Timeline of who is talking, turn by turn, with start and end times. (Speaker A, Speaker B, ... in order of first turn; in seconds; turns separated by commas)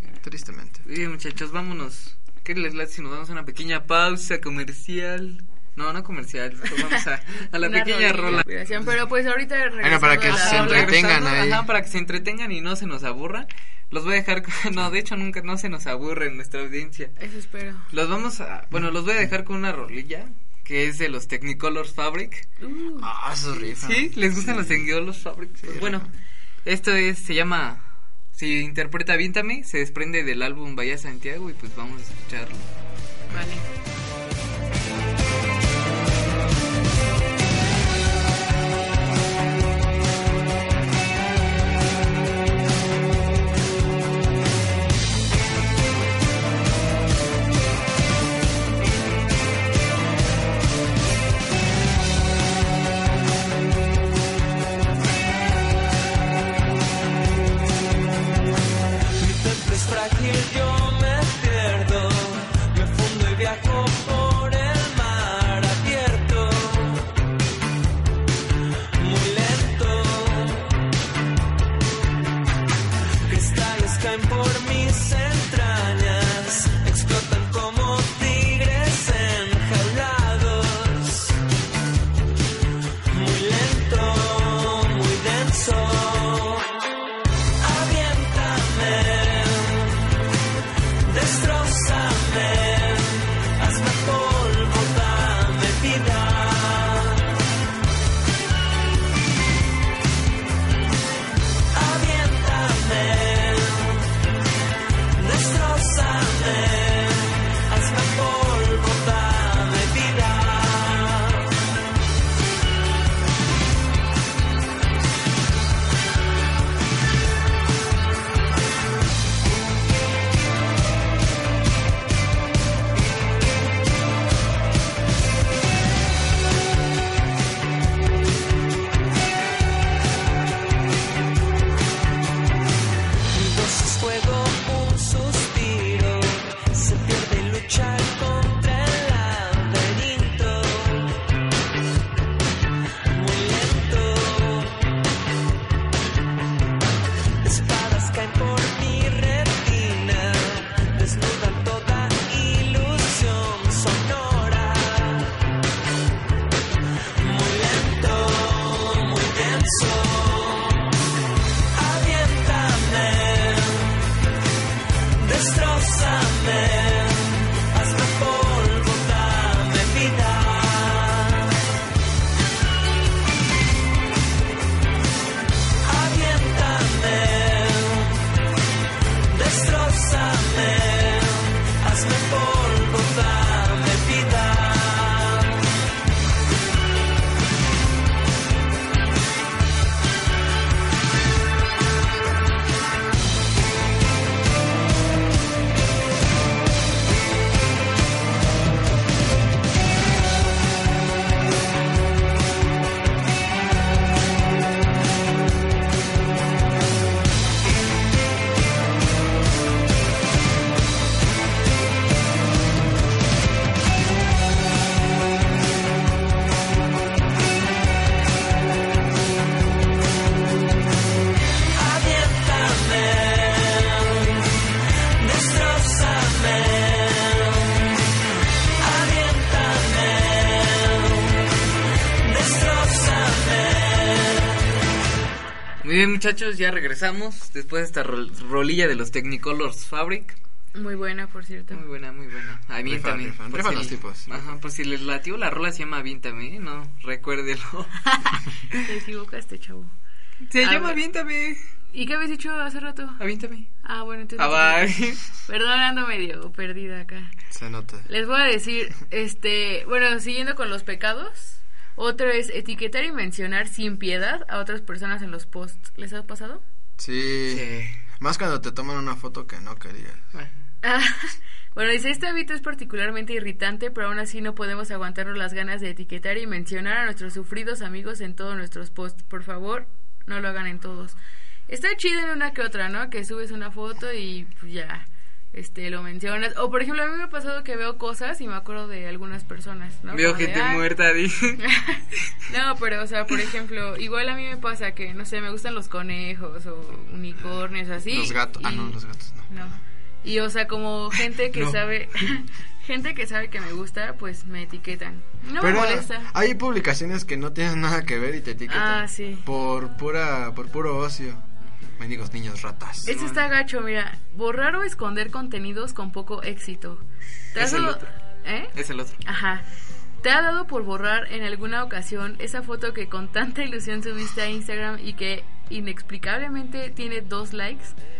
Speaker A: 0.1-0.8, Speaker B: 0.8-8.5, Speaker C: 7.6-11.0, Speaker A: 9.8-11.7, Speaker B: 10.3-17.1, Speaker C: 17.2-17.9, Speaker B: 17.9-22.4, Speaker C: 22.6-23.1, Speaker A: 23.0-24.9, Speaker B: 23.7-26.1, Speaker A: 25.6-26.1, Speaker B: 26.6-32.7, Speaker C: 33.3-33.6, Speaker D: 59.2-67.0, Speaker D: 69.0-70.7, Speaker D: 73.2-81.3, Speaker D: 83.1-86.7, Speaker D: 87.6-90.0, Speaker D: 91.1-97.2, Speaker D: 101.7-104.0, Speaker D: 105.2-111.4, Speaker D: 133.3-141.1, Speaker D: 143.1-144.7, Speaker D: 147.4-155.2, Speaker D: 157.2-160.8, Speaker D: 161.7-163.9, Speaker D: 165.2-171.5, Speaker D: 175.8-178.2, Speaker D: 179.3-185.5, Speaker D: 221.8-224.3, Speaker D: 225.2-226.8, Speaker D: 229.2-229.8, Speaker D: 232.3-233.4, Speaker B: 235.8-240.3, Speaker C: 240.7-241.8, Speaker B: 241.7-248.2, Speaker A: 242.8-244.5, Speaker C: 248.1-249.9, Speaker B: 250.5-251.6, Speaker C: 250.6-251.0, Speaker C: 251.9-253.2, Speaker B: 253.2-253.7, Speaker C: 253.8-257.3, Speaker B: 254.4-255.2, Speaker A: 257.5-258.1, Speaker C: 258.1-266.6, Speaker A: 267.0-267.7, Speaker B: 267.5-267.9, Speaker A: 268.2-270.2, Speaker C: 270.8-290.9, Speaker B: 290.1-291.6, Speaker C: 291.6-299.0, Speaker A: 298.1-299.7, Speaker C: 299.5-306.3, Speaker B: 301.5-301.8, Speaker A: 305.6-311.4, Speaker C: 308.7-309.4, Speaker A: 312.0-313.1, Speaker C: 313.1-319.6, Speaker B: 313.1-313.5, Speaker B: 317.6-318.1, Speaker B: 318.7-319.2, Speaker C: 320.2-327.9